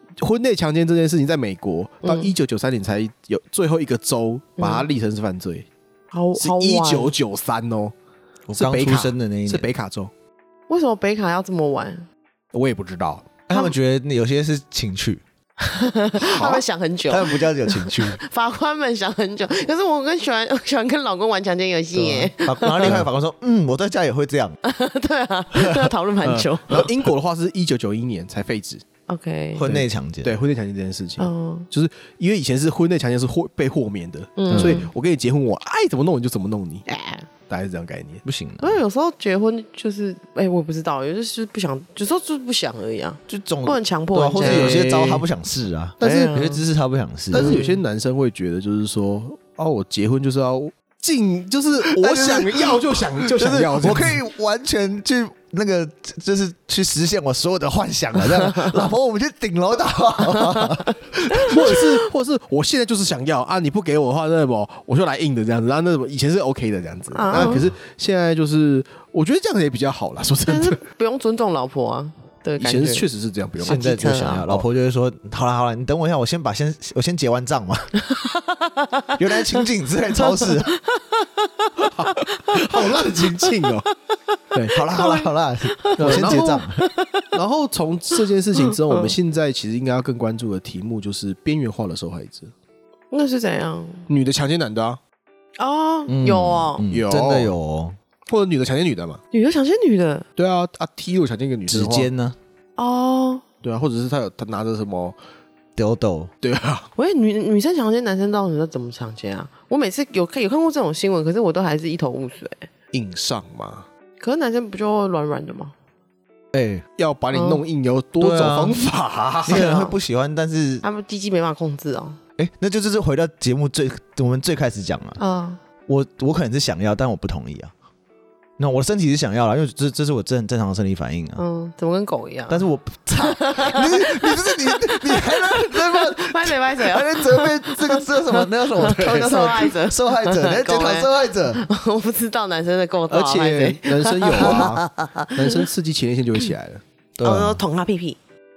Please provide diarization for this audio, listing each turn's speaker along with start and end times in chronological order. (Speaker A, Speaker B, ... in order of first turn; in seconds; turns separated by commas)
Speaker A: 0.2-5.7, Speaker B: 2.0-2.3, Speaker B: 4.6-4.9, Speaker B: 6.1-7.1, Speaker A: 6.4-7.9, Speaker C: 8.5-9.7, Speaker A: 8.5-10.1, Speaker B: 10.7-12.1, Speaker A: 12.5-13.3, Speaker C: 13.5-15.2, Speaker B: 15.6-23.0, Speaker A: 16.2-16.6, Speaker C: 17.1-18.2, Speaker A: 21.9-22.3, Speaker C: 22.4-24.6, Speaker A: 22.8-23.1, Speaker B: 24.6-26.9, Speaker C: 25.6-25.9, Speaker A: 26.2-28.8, Speaker B: 29.1-29.7, Speaker C: 29.6-30.4, Speaker A: 29.6-36.9, Speaker B: 31.2-31.7, Speaker B: 34.4-34.9, Speaker C: 34.5-34.8, Speaker B: 36.9-37.3, Speaker A: 37.5-38.2, Speaker C: 38.2-38.8, Speaker B: 38.6-45.0, Speaker C: 43.3-47.6, Speaker A: 44.4-45.2, Speaker A: 46.0-46.3, Speaker B: 46.0-46.6, Speaker A: 47.3-54.2, Speaker B: 47.3-47.8, Speaker C: 51.8-61.8, Speaker B: 58.5-58.8, Speaker B: 60.3-60.8, Speaker B: 61.3-61.9, Speaker A: 61.5-70.8, Speaker B: 67.1-67.7, Speaker C: 67.3-67.7, Speaker B: 70.5-73.1, Speaker A: 72.6-74.7, Speaker C: 73.6-77.9, Speaker B: 73.7-74.5, Speaker B: 78.0-79.7, Speaker C: 79.2-80.7, Speaker B: 80.2-83.7, Speaker A: 81.8-83.9, Speaker C: 84.7-86.8, Speaker B: 84.8-87.3, Speaker A: 86.0-86.6, Speaker A: 87.3-92.5, Speaker B: 88.6-89.2, Speaker B: 93.1-94.1, Speaker A: 94.1-95.0, Speaker B: 95.6-96.8, Speaker C: 96.1-98.0, Speaker A: 96.9-97.5, Speaker A: 98.3-99.2, Speaker B: 99.3-100.3, Speaker A: 100.4-102.1, Speaker C: 101.7-102.4, Speaker B: 102.8-103.5, Speaker A: 103.6-105.2, Speaker C: 105.8-106.3, Speaker A: 106.4-106.9, Speaker B: 107.0-112.7, Speaker A: 112.9-113.9, Speaker B: 114.2-115.7, Speaker C: 116.5-116.8, Speaker A: 117.0-119.7, Speaker B: 117.3-117.6, Speaker C: 118.2-118.8, Speaker C: 119.5-120.8, Speaker B: 119.5-120.0, Speaker B: 120.8-122.2, Speaker C: 122.4-125.2, Speaker B: 125.2-125.6, Speaker C: 125.9-127.7, Speaker C: 128.6-131.4, Speaker B: 131.4-132.7, Speaker C: 132.5-141.6, Speaker B: 133.2-145.7, Speaker A: 138.9-139.3, Speaker A: 143.1-146.8, Speaker C: 147.2-147.6, Speaker B: 147.2-148.2